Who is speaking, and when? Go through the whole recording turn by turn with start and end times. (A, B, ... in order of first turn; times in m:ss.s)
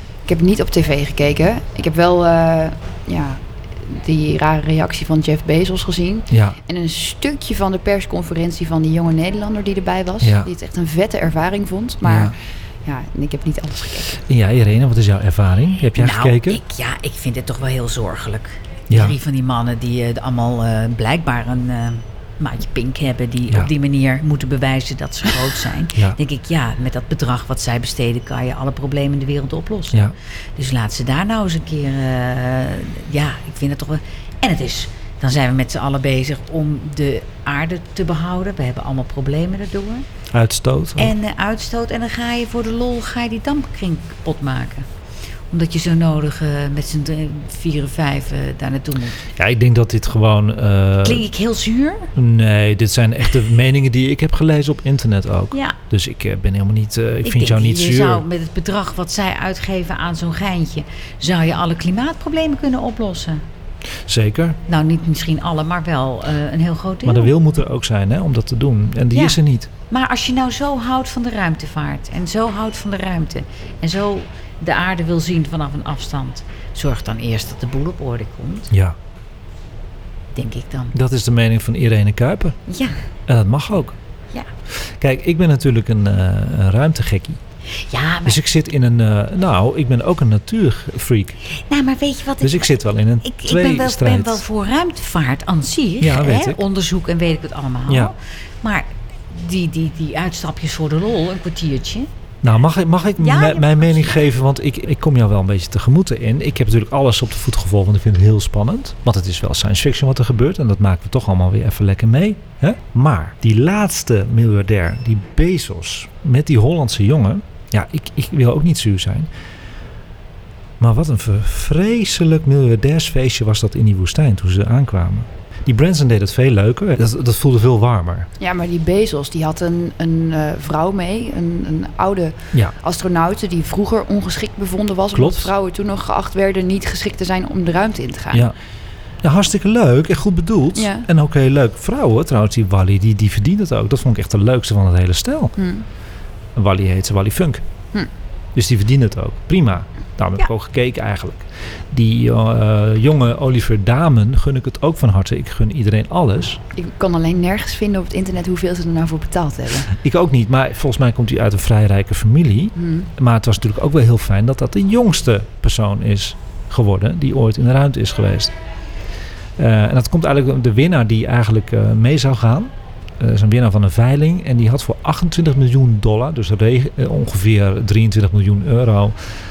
0:00.2-0:14.2 A
0:06.3-0:06.6 B
0:10.2-0:10.5 B
0:12.0-0:12.3 B
0:14.3-0:16.6 B
0:16.0-0:40.0 C
0:18.9-0:19.2 B
0:40.3-0:41.1 B
0:41.0-0:44.8 C
0:45.5-0:49.2 C
0:49.4-0:51.3 B
0:51.0-0:52.1 C
0:52.2-0:58.2 B
0:57.2-1:03.4 C
1:04.1-1:04.6 B
1:04.7-1:07.3 C
1:07.0-1:09.7 B
1:09.1-1:18.7 C
1:18.7-1:19.0 B
1:20.3-1:21.0 C
1:20.9-1:22.6 B
1:22.7-1:23.0 C
1:23.3-1:24.0 B
1:25.0-1:27.4 B
1:27.8-1:28.4 C
1:28.2-1:31.4 B
1:31.5-1:42.1 C
1:32.4-1:34.4 B
1:36.0-1:36.6 B
1:37.9-1:38.1 B
1:42.4-1:59.3 B
1:43.2-1:44.3 C
2:00.8-2:08.3 B
2:08.4-2:18.5 A
2:15.1-2:15.5 B
2:19.2-2:25.5 B
2:20.8-2:21.1 A
2:25.6-2:25.8 A
2:26.6-2:27.6 B
2:28.5-2:36.6 B
2:36.7-2:39.9 A
2:39.9-2:48.5 B
2:42.8-2:43.1 A
2:49.6-2:59.1 B